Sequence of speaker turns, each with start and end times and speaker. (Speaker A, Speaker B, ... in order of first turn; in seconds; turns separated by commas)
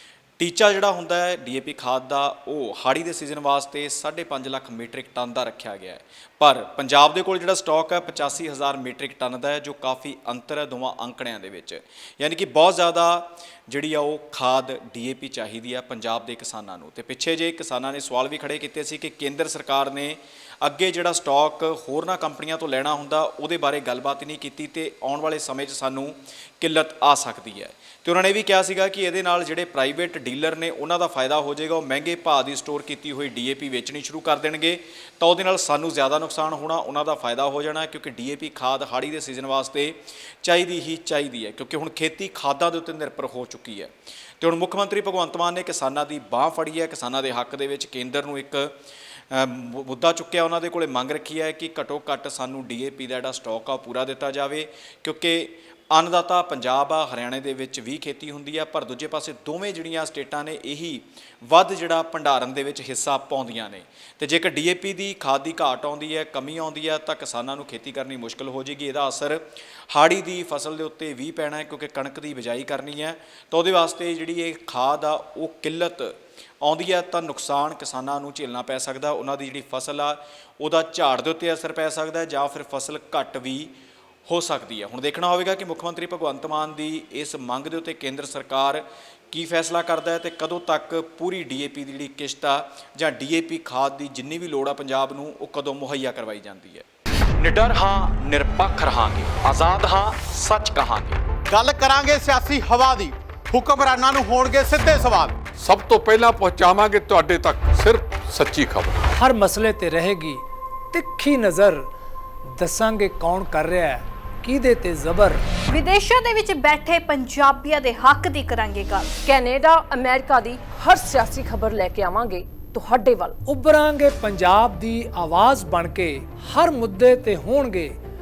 Speaker A: 0.4-48.8, Speaker A: 49.3-83.7, Speaker A: 84.3-96.8, Speaker A: 97.4-101.2, Speaker B: 101.5-105.4, Speaker C: 105.5-109.0, Speaker D: 109.1-110.4, Speaker D: 110.9-111.8, Speaker D: 112.6-115.4, Speaker E: 115.7-119.1, Speaker F: 119.2-123.4, Speaker D: 123.4-127.9